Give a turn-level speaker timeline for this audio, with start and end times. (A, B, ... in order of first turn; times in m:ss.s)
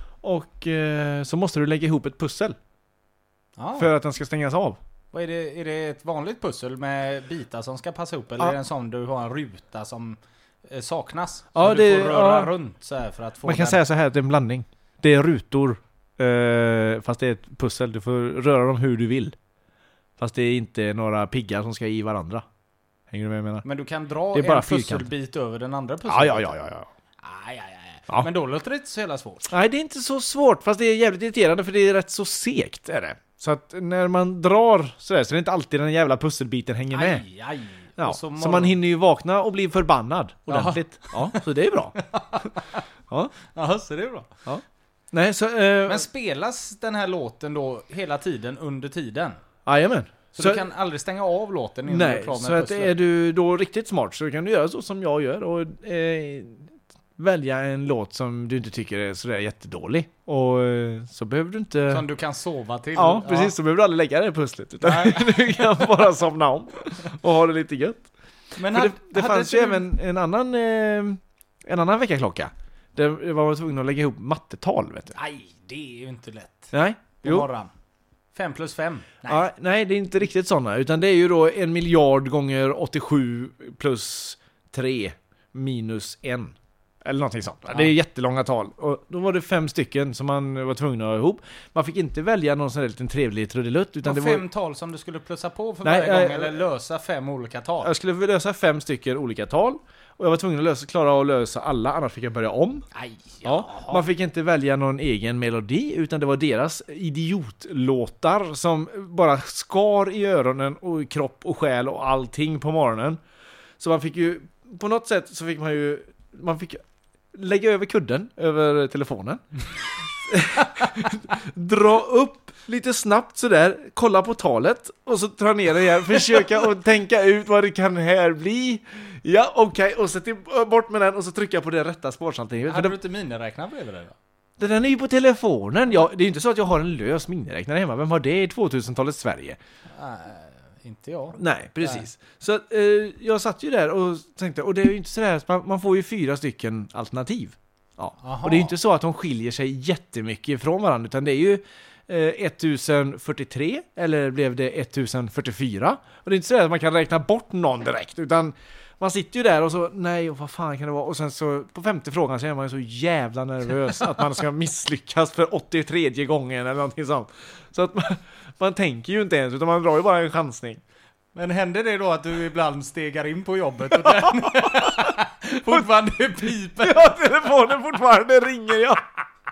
0:00.2-0:02.6 A
0:03.6-0:03.9 B
0:03.8-0:04.8 A
0:05.1-0:13.8 B
0:11.5-0:12.5 A
0:13.4-0:19.4 A
0:20.2-0:22.4 A
0:23.1-0:23.6 A
0:23.6-0:26.6 B
0:24.3-0:25.1 A
0:26.1-0:26.9 A
0:27.2-0:29.5 B
0:29.5-0:37.2 A
0:36.9-0:38.8 B
0:38.0-0:42.0 A
0:40.5-0:41.4 B
0:42.0-0:42.8 B
0:43.5-0:44.4 B
0:44.5-0:46.1 A
0:45.8-0:49.4 B
0:49.7-0:50.7 A
0:50.3-0:53.0 B
0:51.9-1:02.1 A
1:01.9-1:03.5 B
1:03.0-1:15.2 A
1:04.8-1:05.9 B
1:08.6-1:09.9 B
1:15.2-1:17.7 B
1:16.7-1:17.5 A
1:18.3-1:19.5 B
1:19.3-1:34.4 A
1:34.0-1:37.9 B
1:35.8-1:36.6 A
1:37.8-1:42.9 A
1:42.9-1:44.0 B
1:43.4-1:53.2 A
1:53.8-1:56.8 A
1:57.3-1:59.4 A
2:00.3-2:13.0 A
2:12.7-2:14.2 B
2:14.6-2:19.6 A
2:19.9-2:22.1 B
2:21.4-2:50.8 A
2:28.2-2:28.8 B
2:51.4-2:57.2 B
2:54.0-2:55.1 A
2:56.8-2:59.0 A